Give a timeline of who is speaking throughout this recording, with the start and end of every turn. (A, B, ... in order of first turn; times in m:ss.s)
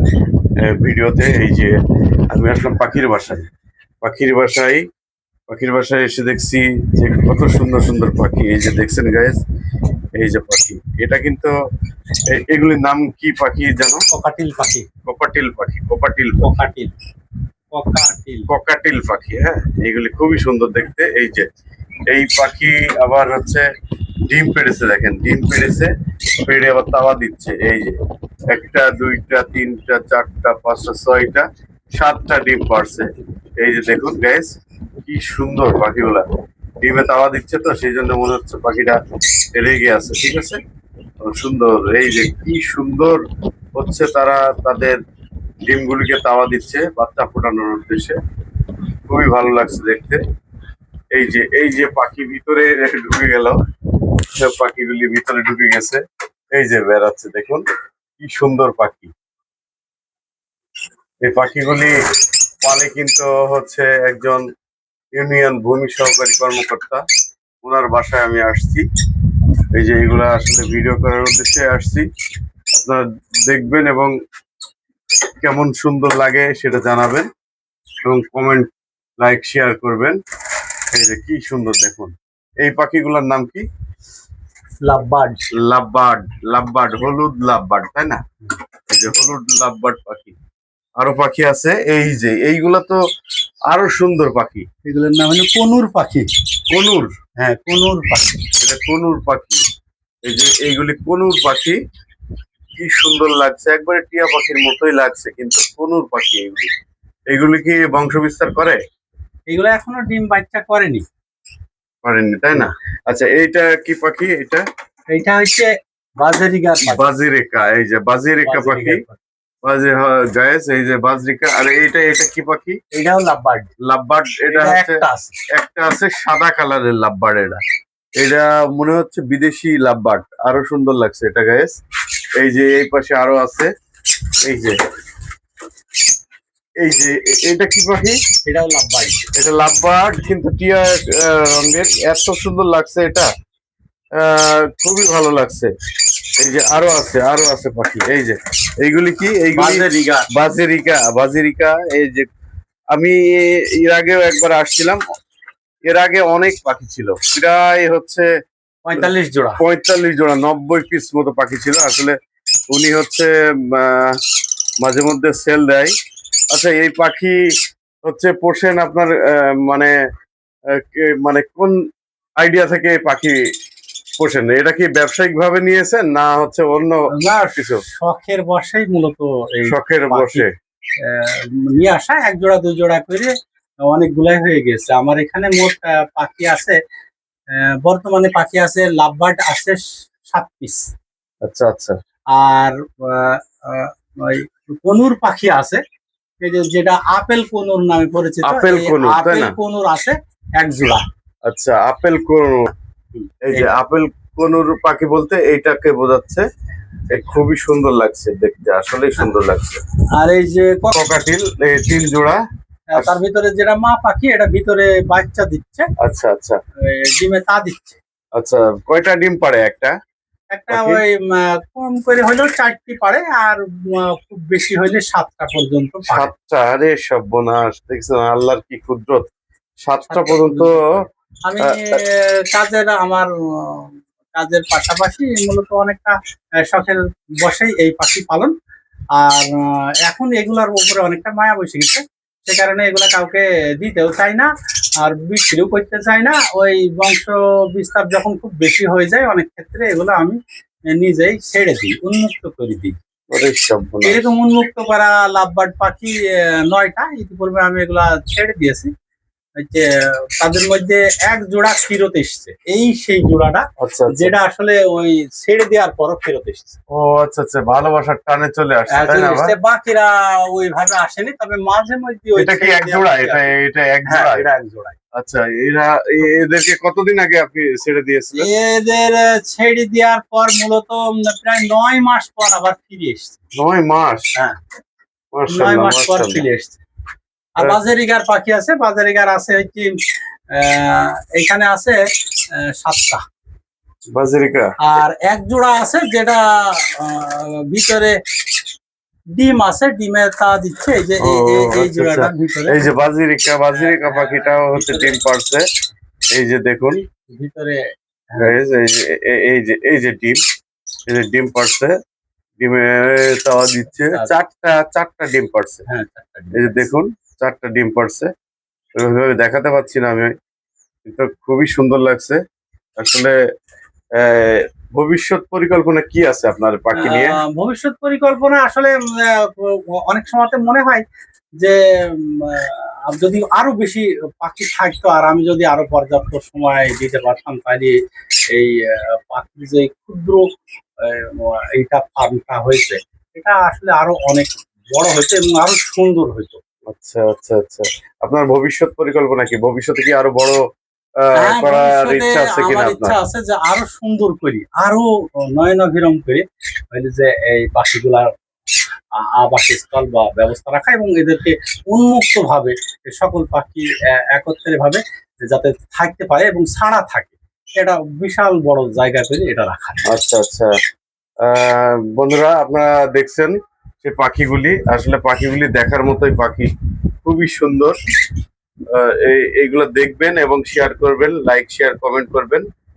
0:00.6-0:01.8 A
0:02.3-0:03.5 A
0:04.0-0:04.8 A
0:05.5-0:09.4 A
0:10.2-0:11.5 A
0:12.3-0:14.0 A
0:14.1-0:14.8 B
0:15.0-0:16.4 A
0:16.4-0:16.9 B
0:17.7-0:18.5 B
0:18.5-0:21.5 A
0:22.1-0:23.6 A
0:24.3-0:25.9 A
0:26.4-0:27.9 A
0:28.5-0:34.5 A
0:35.0-0:36.2 A
0:36.8-0:39.0 A
0:39.5-0:40.6 A
0:41.2-0:43.2 A
0:43.8-0:45.0 A
0:45.6-0:48.2 A
0:49.1-0:50.2 A
0:51.1-0:53.6 A
0:54.3-0:56.0 A
0:56.5-0:57.6 A
0:58.2-0:59.1 A
1:01.2-1:01.9 A
1:02.6-1:04.4 A
1:05.2-1:07.0 A
1:07.6-1:08.8 A
1:09.7-1:12.0 A
1:12.8-1:14.1 A
1:15.4-1:17.3 A
1:18.0-1:20.2 A
1:20.9-1:23.6 A
1:24.8-1:25.5 B
1:25.6-1:28.2 A
1:28.9-1:30.4 A
1:31.0-1:33.0 A
1:33.7-1:34.6 A
1:34.8-1:36.3 B
1:36.7-1:37.1 A
1:37.4-1:38.4 B
1:38.6-1:39.6 A
1:40.2-1:41.8 A
1:42.8-1:46.7 A
1:47.3-1:48.8 A
1:49.5-1:51.0 B
1:52.0-1:54.6 A
1:55.1-1:57.1 B
1:56.9-1:59.0 A
1:58.4-1:59.2 B
1:59.6-2:02.8 A
2:02.9-2:03.7 B
2:03.8-2:05.0 A
2:04.5-2:05.3 B
2:05.5-2:07.6 A
2:08.2-2:11.8 A
2:12.4-2:13.7 A
2:14.4-2:14.8 A
2:16.8-2:18.2 A
2:18.4-2:19.3 B
2:19.4-2:23.3 A
2:24.2-2:25.7 A
2:26.4-2:32.3 A
2:29.5-2:30.3 B
2:32.9-2:35.0 A
2:35.9-2:38.3 A
2:38.8-2:39.6 B
2:39.0-2:42.2 A
2:42.7-2:44.1 A
2:44.8-2:45.9 A
2:46.5-2:47.4 A
2:48.0-2:49.9 A
2:50.8-2:51.7 A
2:52.4-2:53.4 A
2:54.2-2:57.8 A
2:57.1-3:00.4 B
2:59.6-3:00.5 A
3:01.0-3:03.3 B
3:03.8-3:06.8 B
3:07.8-3:10.9 B
3:11.4-3:12.0 A
3:12.3-3:15.8 B
3:16.4-3:21.0 B
3:18.4-3:19.6 A
3:21.4-3:22.7 A
3:23.1-3:23.8 B
3:23.4-3:26.4 A
3:27.1-3:27.4 B
3:27.1-3:29.8 A
3:30.2-3:30.9 B
3:30.9-3:32.4 A
3:32.9-3:35.9 B
3:36.0-3:36.6 A
3:36.8-3:38.0 B
3:38.4-3:39.9 A
3:40.5-3:46.3 B
3:40.7-3:41.0 A
3:46.1-3:49.3 A
3:49.8-3:50.8 A
3:50.1-3:58.5 B
3:51.6-3:52.0 A
3:59.2-3:59.5 B
4:00.0-4:10.4 B
4:10.9-4:13.0 B
4:13.3-4:14.3 A
4:14.0-4:18.9 B
4:19.6-4:19.8 B
4:20.4-4:26.8 B
4:23.8-4:24.3 A
4:26.9-4:29.5 A
4:28.9-4:33.5 B
4:32.4-4:34.4 A
4:34.1-4:35.0 B
4:35.2-4:38.5 A
4:38.4-4:43.4 B
4:43.5-4:44.3 A
4:45.3-4:46.4 A
4:45.5-4:46.8 B
4:47.6-4:49.9 B
4:50.5-4:52.0 B
4:52.6-4:53.2 B
4:54.1-4:54.7 A
4:54.8-4:58.2 B
4:59.4-5:02.9 B
5:01.2-5:05.7 A
5:03.7-5:05.2 B
5:06.3-5:07.0 A
5:07.3-5:07.8 B
5:08.3-5:08.6 B
5:08.4-5:10.4 A
5:11.1-5:11.9 A
5:12.6-5:15.8 A
5:14.0-5:14.3 B
5:15.9-5:16.9 B
5:16.5-5:18.3 A
5:19.0-5:20.3 A
5:21.0-5:22.4 A
5:23.0-5:23.3 A
5:24.2-5:27.4 A
5:26.9-5:31.0 B
5:31.6-5:37.9 B
5:38.5-5:40.5 B
5:41.0-5:46.6 B
5:46.9-5:50.6 A
5:51.2-5:53.2 A
5:51.4-5:58.3 B
5:59.2-6:10.0 B
6:10.1-6:10.7 A
6:11.4-6:16.7 A
6:17.2-6:18.0 A
6:18.9-6:22.6 A